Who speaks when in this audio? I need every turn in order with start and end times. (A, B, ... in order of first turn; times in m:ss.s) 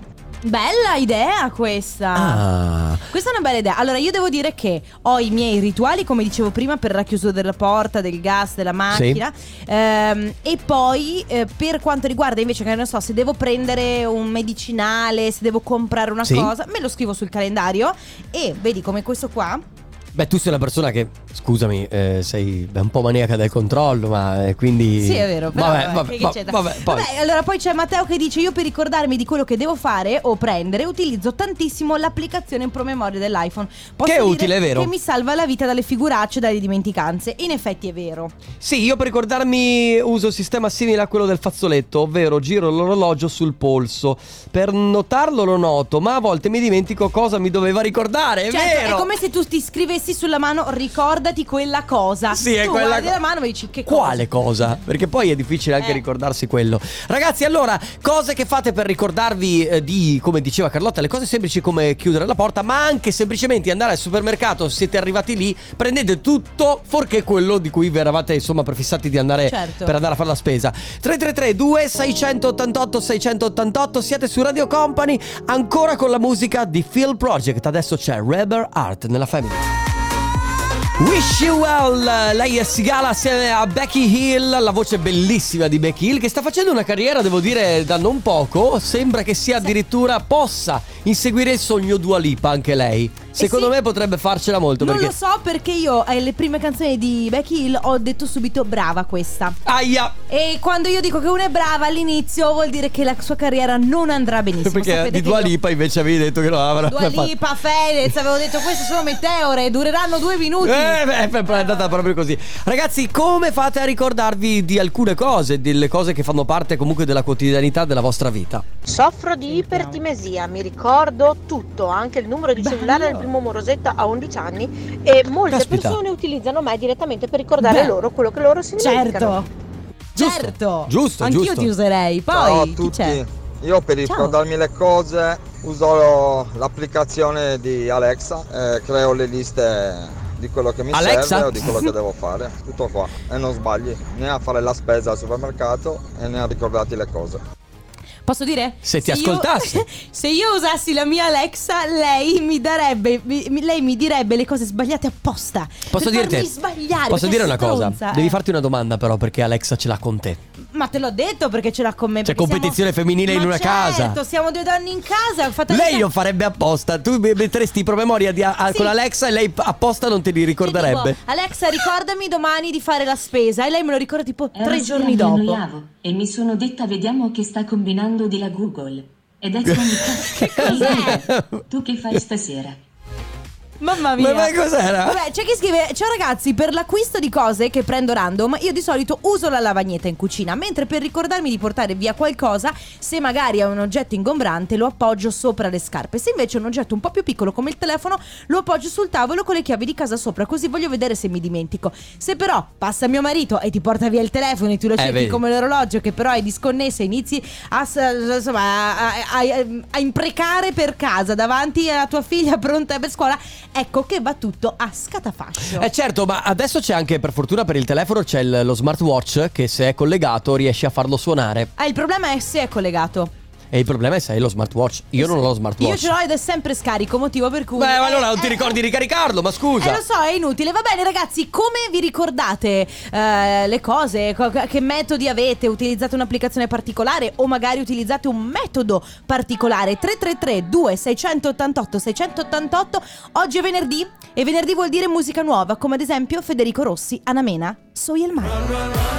0:00.4-0:02.4 A
0:02.1-0:03.0 B
0:03.1-0:19.6 A
0:08.9-0:09.2 B
0:16.2-0:16.5 B
0:20.1-0:27.1 B
0:25.0-0:38.3 A
0:34.0-0:34.9 B
0:38.6-0:49.1 B
0:48.5-0:54.2 A
0:52.3-0:53.1 B
0:53.8-1:19.7 B
1:09.5-1:09.9 A
1:21.0-1:35.1 B
1:33.4-1:33.7 A
1:34.8-1:39.6 A
1:39.6-1:40.2 B
1:40.3-1:45.5 A
1:44.6-1:47.3 B
1:46.9-1:51.0 A
1:50.6-1:58.6 B
1:58.8-2:09.4 C
1:59.5-2:00.0 A
2:02.6-2:03.3 A
2:05.5-2:06.0 B
2:07.6-2:07.9 A
2:08.8-2:09.5 A
2:10.1-2:13.2 A
2:10.2-2:11.7 B
2:12.3-2:27.4 D
2:14.0-2:14.4 A
2:20.9-2:21.7 B
2:28.2-2:38.4 A
2:28.8-2:29.8 B
2:35.9-2:36.5 B
2:37.1-2:40.4 B
2:40.7-2:46.1 A
2:42.2-2:44.2 B
2:45.7-2:51.2 B
2:50.6-2:55.6 A
2:54.5-3:02.8 E
2:59.6-3:01.6 B
3:00.3-3:01.2 A
3:03.8-3:35.9 A
3:04.2-3:05.2 B
3:25.0-3:25.4 B
3:35.7-3:41.7 B
3:41.8-3:43.3 A
3:43.7-3:46.1 B
3:45.2-3:48.8 A
3:47.8-3:50.0 B
3:49.8-4:08.9 A